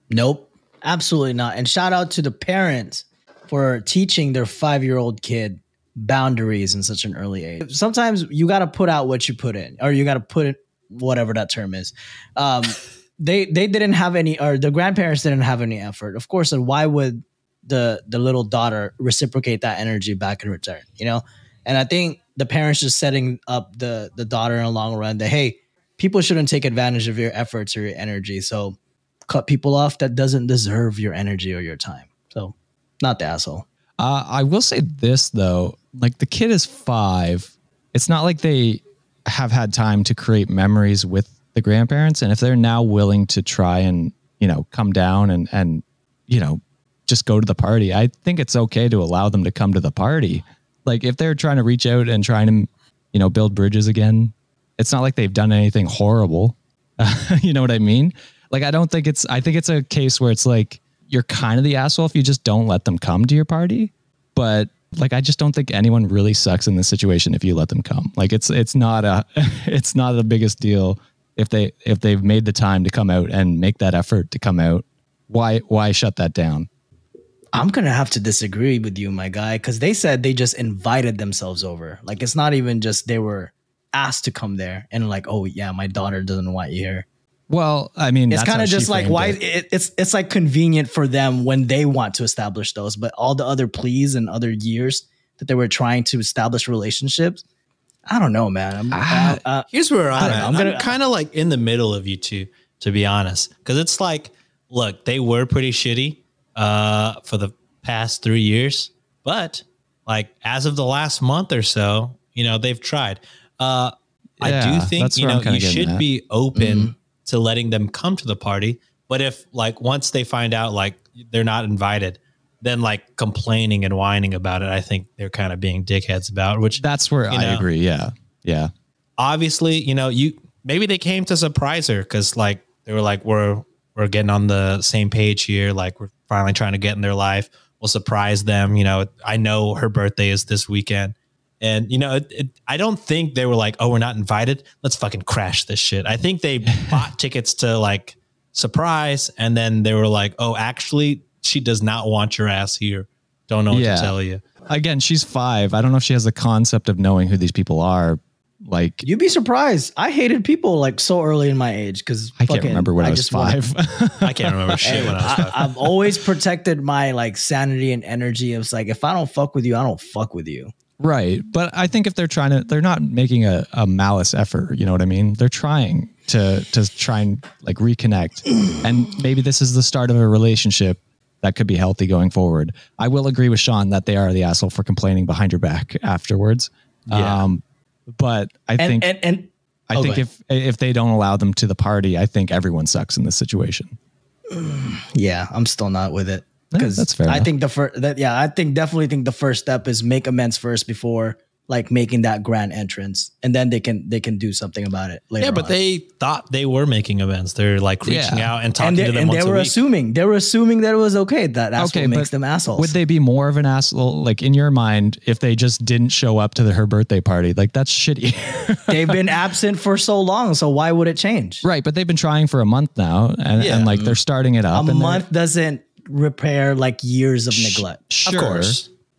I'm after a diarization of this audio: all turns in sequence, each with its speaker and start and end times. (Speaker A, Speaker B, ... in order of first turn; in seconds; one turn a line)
Speaker A: 0.1-28.8
Speaker A: 29.3-33.6
Speaker B: 34.0-76.7
Speaker A: 77.5-87.1
Speaker B: 87.5-89.4
Speaker A: 88.3-97.4
Speaker A: 98.1-100.9
Speaker B: 98.9-99.4
Speaker C: 99.7-127.7
Speaker B: 100.2-100.5
Speaker B: 114.4-116.0
Speaker A: 116.5-116.9
Speaker B: 126.8-128.7
Speaker C: 129.2-154.4
Speaker B: 153.7-154.1
Speaker B: 154.7-159.0
Speaker A: 159.0-163.6
Speaker B: 162.4-165.5
Speaker C: 164.2-165.7
Speaker A: 164.8-170.7
Speaker B: 171.0-189.1
Speaker C: 187.1-187.5
Speaker A: 188.8-190.2
Speaker B: 189.9-194.0
Speaker A: 194.5-205.7
Speaker B: 196.7-197.5
Speaker C: 205.4-209.8
Speaker B: 208.1-208.5
Speaker A: 208.8-212.9
Speaker B: 211.8-219.2
Speaker A: 218.9-221.7
Speaker B: 221.6-225.2
Speaker C: 223.6-224.0
Speaker A: 224.7-228.0
Speaker B: 227.5-228.8
Speaker C: 228.2-228.9